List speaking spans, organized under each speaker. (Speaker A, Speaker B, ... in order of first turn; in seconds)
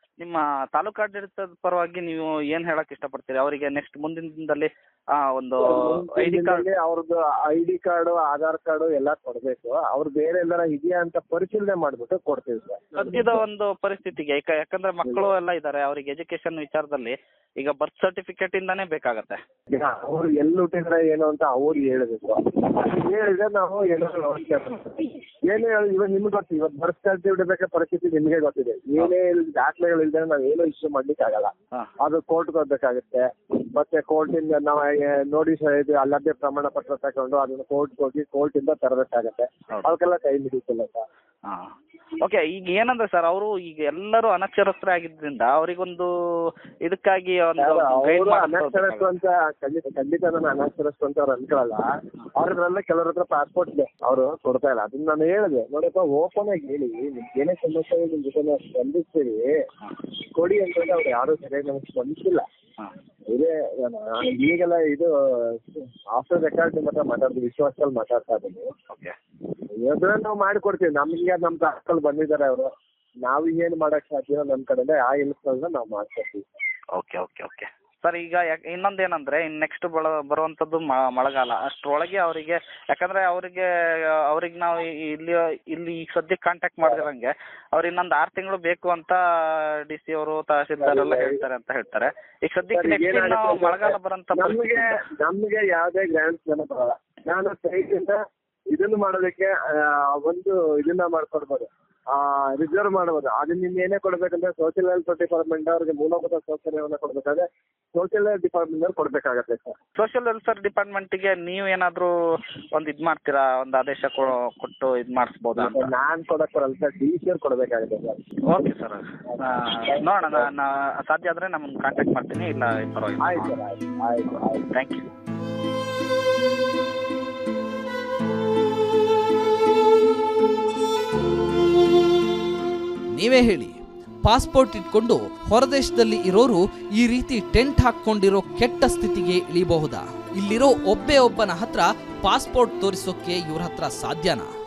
Speaker A: 0.2-6.7, 13.0-19.4, 41.5-49.1, 68.9-69.1, 76.9-83.7, 84.2-94.8, 110.0-112.1, 112.7-115.9, 118.5-123.5, 124.7-125.0
Speaker B: 5.6-13.4, 15.0-15.3, 19.7-41.0, 47.6-51.9, 52.4-59.6, 60.4-62.5, 63.3-68.7, 69.8-72.7, 73.2-76.4, 90.8-91.4, 92.7-109.8, 115.5-118.2, 119.4-120.5, 123.2-124.6
Speaker C: 133.2-144.5